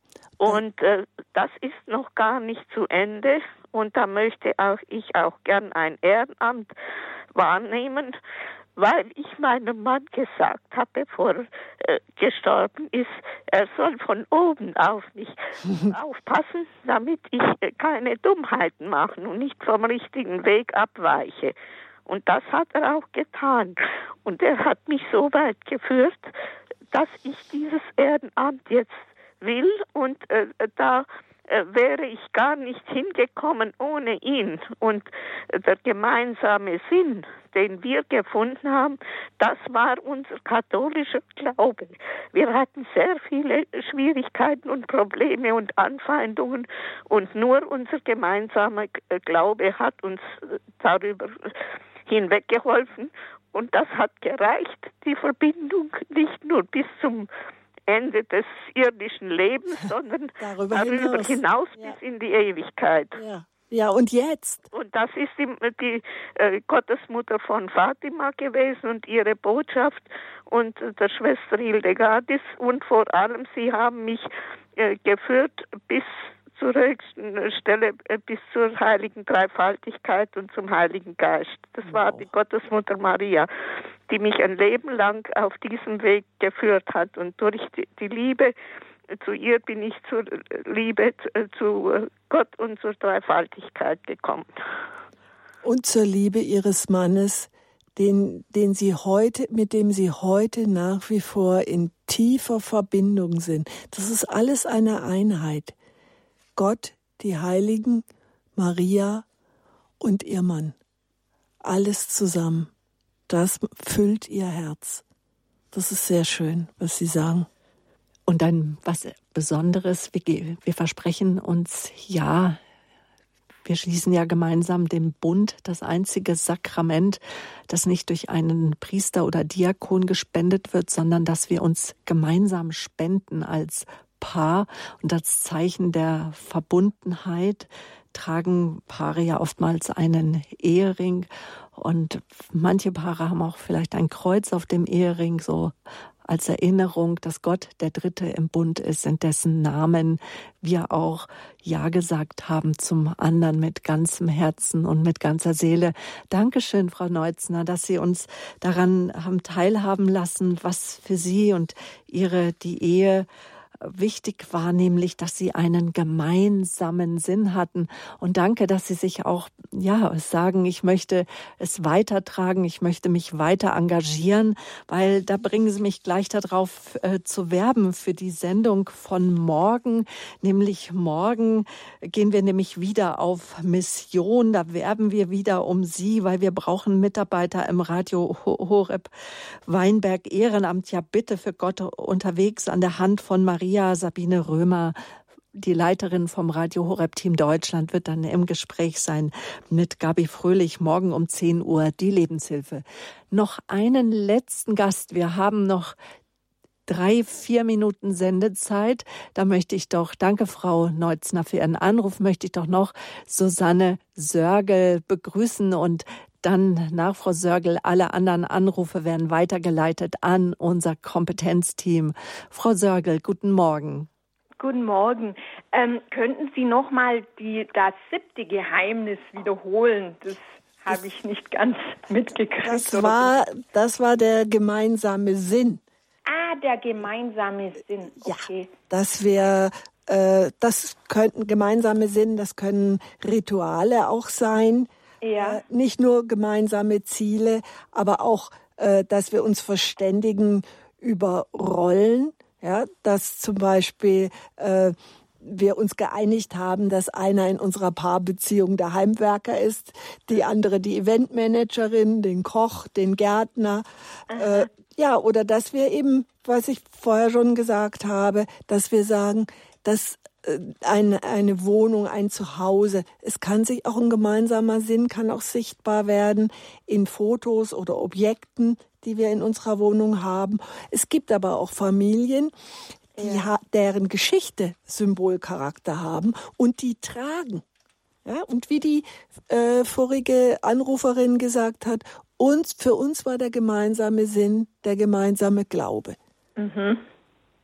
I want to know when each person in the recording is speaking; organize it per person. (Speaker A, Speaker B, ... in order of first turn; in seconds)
Speaker A: 0.4-6.7, 7.3-8.2, 8.8-21.5, 22.1-26.3, 26.9-57.3, 57.9-63.2, 64.7-83.5, 84.1-88.5, 89.1-94.5
Speaker B: 60.4-62.0, 63.1-64.7, 81.9-82.2, 95.6-105.7, 106.5-108.0, 108.5-109.2, 110.0-110.8, 111.6-112.7, 113.3-115.0, 115.7-117.5, 232.6-235.8, 238.2-282.5, 283.1-287.6, 288.2-296.2
Speaker C: 118.3-122.6, 123.6-145.7, 146.3-163.3, 163.8-189.1, 189.7-194.9, 195.5-205.9, 206.9-224.1
Speaker D: 224.6-233.3, 236.2-238.7, 245.2-245.6, 264.3-264.7, 296.6-297.0